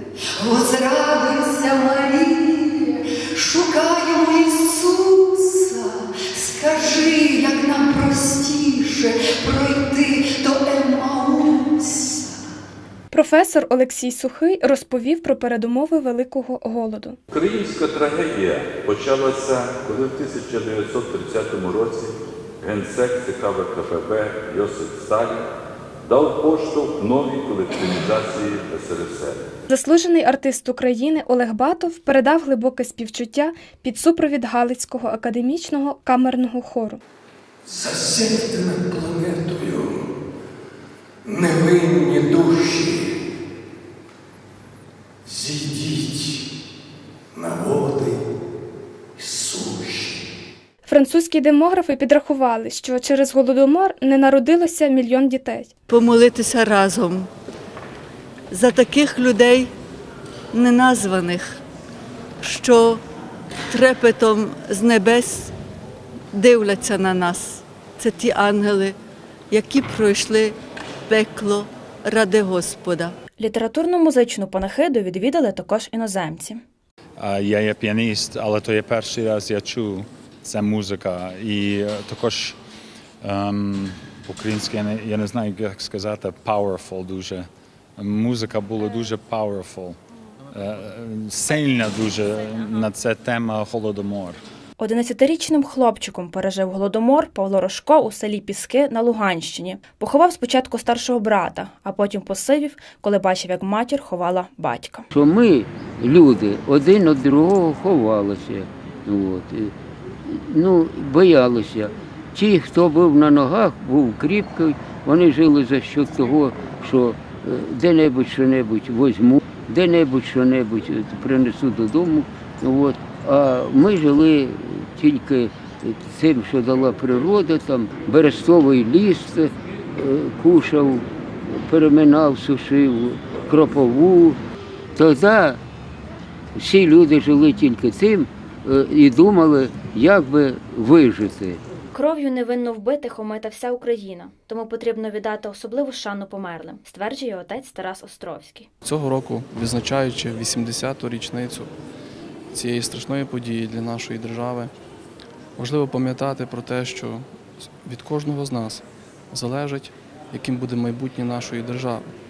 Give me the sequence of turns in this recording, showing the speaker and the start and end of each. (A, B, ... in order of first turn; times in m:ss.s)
0:00.4-0:12.5 A
0:13.1-0:17.2 B
0:17.3-0:25.5 C
0:26.0-0:29.4 C
0:29.7-0:37.0 B
0:37.6-0:40.0 D
0:41.2-0:43.1 D
0:45.2-0:46.4 D
0:47.3-0:48.2 D
0:49.2-0:50.2 D
0:50.8-0:55.7 B
0:55.9-0:57.3 E
0:58.5-0:59.7 E
1:00.5-1:01.6 E
1:02.4-1:03.0 E
1:03.7-1:05.5 E
1:06.3-1:08.9 E
1:09.5-1:10.5 E
1:11.1-1:13.1 E
1:13.4-1:16.6 F
1:17.2-1:22.6 G
1:23.2-1:30.0 G
1:30.5-1:34.4 G
1:34.8-1:45.1 F
1:45.1-1:49.7 H
1:50.3-2:14.4 H
2:15.0-2:15.6 H
2:16.5-2:21.6 H
2:21.9-2:28.7 F
2:28.8-2:31.7 I
2:32.5-2:34.7 I
2:35.6-2:37.3 I
2:37.8-2:42.1 I